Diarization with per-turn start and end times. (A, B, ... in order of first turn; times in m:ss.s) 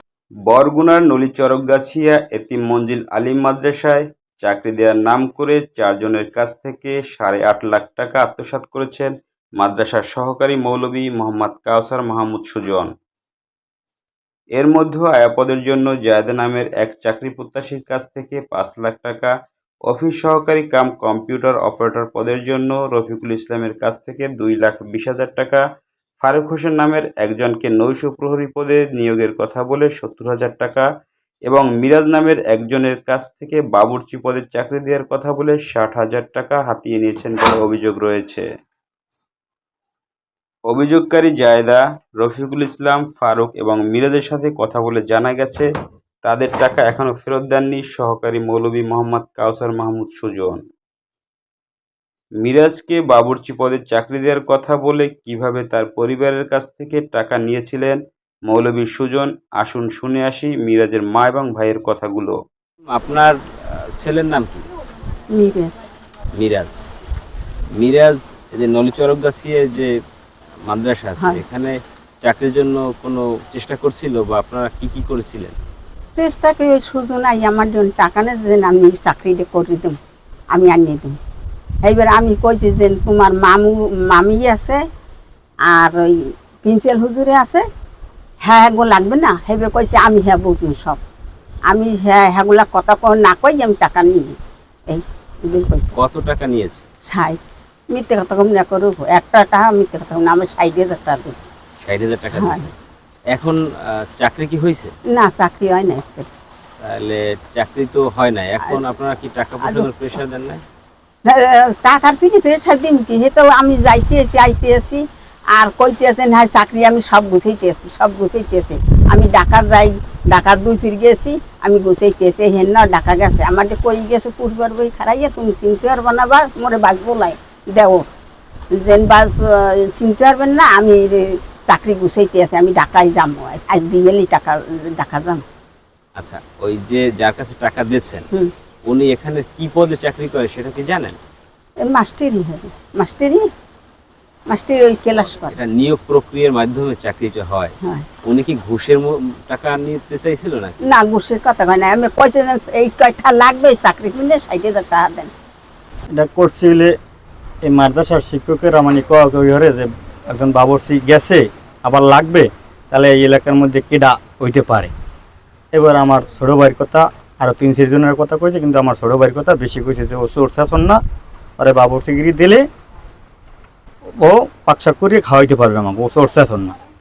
0:00.5-0:12.9 A
0:14.6-0:19.3 A
0:19.9-0:25.6 A
0:26.2-0:30.9 A
0:31.5-0:38.5 A
0:40.7-0:45.7 A
0:46.2-0:50.6 A
0:52.4-1:02.4 A
1:02.9-1:04.7 B
1:05.3-1:05.9 C
1:06.4-1:06.8 B
1:07.8-1:09.9 B
1:10.7-1:15.6 B
1:16.2-1:20.0 C
1:20.5-1:21.2 C
1:21.8-1:24.8 C
1:25.7-1:27.6 C
1:28.4-1:31.0 C
1:31.7-1:34.4 C
1:34.9-1:36.0 C
1:35.5-1:36.9 B
1:37.1-1:37.4 C
1:37.9-1:41.5 C
1:41.8-1:42.8 B
1:42.4-1:42.6 C
1:43.3-1:43.6 B
1:44.2-1:44.9 B
1:45.1-1:46.3 C
1:46.8-1:50.6 B
1:51.3-1:55.0 C
1:55.6-2:08.1 C
2:08.7-2:15.4 C
2:16.2-2:18.3 B
2:18.9-2:21.2 B
2:21.8-2:23.4 C
2:24.5-2:25.6 C
2:25.1-2:27.7 B
2:28.3-2:30.8 B
2:30.8-2:35.3 C
2:36.2-2:36.9 D
2:37.7-2:44.9 D
2:45.7-2:51.0 D
2:51.6-2:52.6 D
2:54.2-2:56.7 D